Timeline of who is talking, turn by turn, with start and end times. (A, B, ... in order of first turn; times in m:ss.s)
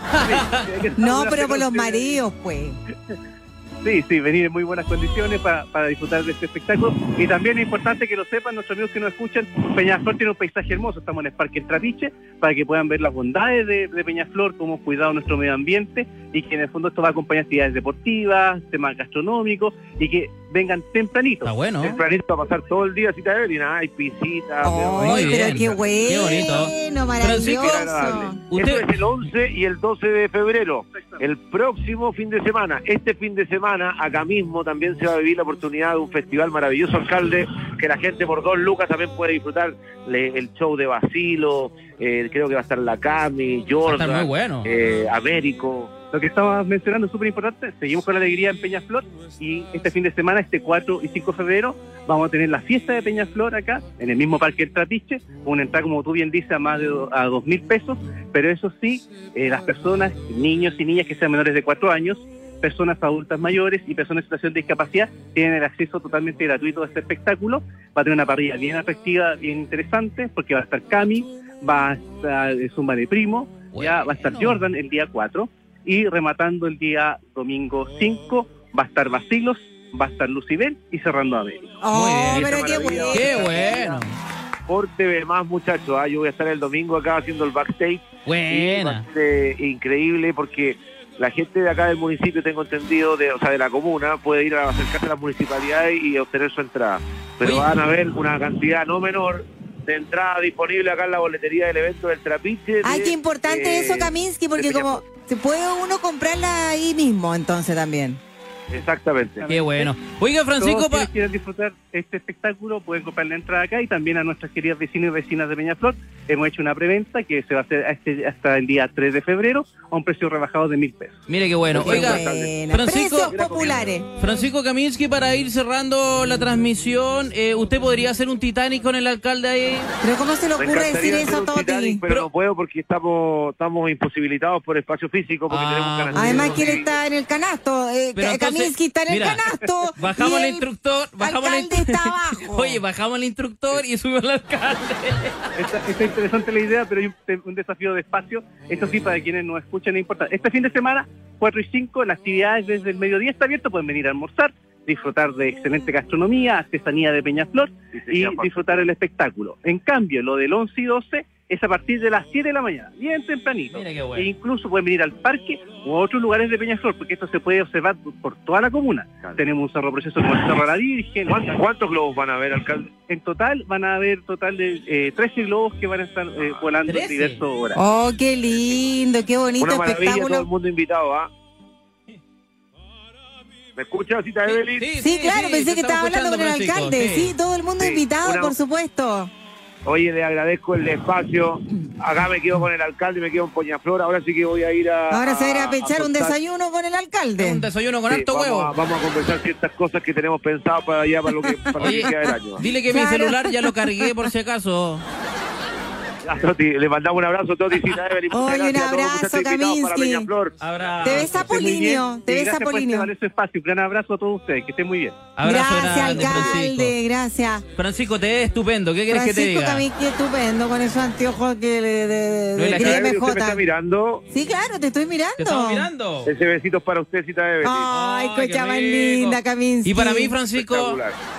0:00.2-0:02.2 A
0:01.0-0:02.8 B
0:03.8-0:21.5 A
0:21.4-0:21.9 C
0:21.8-0:25.7 D
0:24.6-0:28.4 B
0:25.0-0:27.8 C
0:27.4-0:45.9 D
0:28.5-0:28.8 C
0:43.8-0:44.7 C
0:46.1-1:21.7 A
1:13.7-1:14.6 C
1:21.8-1:23.8 B
1:21.9-1:22.5 C
1:22.3-1:24.0 D
1:23.1-1:24.1 C
1:24.7-1:45.0 D
1:28.2-1:29.0 C
1:37.4-1:37.7 C
1:42.8-1:48.2 B
1:48.7-1:49.4 D
1:49.4-1:50.0 A
1:49.5-1:51.1 C
1:50.6-2:01.2 A
2:01.3-2:03.3 C
2:01.7-2:02.5 D
2:01.8-2:04.1 B
2:03.3-2:03.8 D
2:04.2-2:09.9 C
2:10.0-2:12.0 B
2:10.6-2:16.9 D
2:15.5-2:16.8 C
2:16.1-2:20.6 B
2:18.1-2:25.5 C
2:21.2-2:22.8 B
2:25.6-2:51.6 A
2:37.9-2:38.9 D
2:43.7-2:44.3 C
2:51.3-2:52.9 D
2:53.1-2:57.8 A
2:56.8-2:57.4 C
2:57.7-3:00.4 B
2:59.6-3:01.3 D
3:03.8-3:04.9 D
3:04.5-3:07.3 C
3:05.0-3:09.3 B
3:07.8-3:08.5 D
3:09.8-3:16.3 D
3:15.1-3:17.7 B
3:17.4-3:18.7 C
3:18.1-3:22.6 D
3:21.5-3:22.0 B
3:21.8-3:25.0 C
3:22.6-3:24.1 B
3:26.2-3:30.6 D
3:28.3-3:30.3 B
3:30.6-3:31.4 C
3:31.0-3:33.1 B
3:31.2-3:35.2 A
3:35.4-3:36.9 C
3:35.4-3:37.6 B
3:36.0-3:36.6 D
3:37.8-3:39.8 C
3:39.1-3:43.6 B
3:42.5-3:43.1 C
3:42.7-3:44.2 D
3:44.3-3:45.9 B
3:45.4-3:46.3 C
3:46.2-3:47.9 D
3:47.6-3:50.3 B
3:47.9-3:51.0 C
3:50.5-3:51.2 D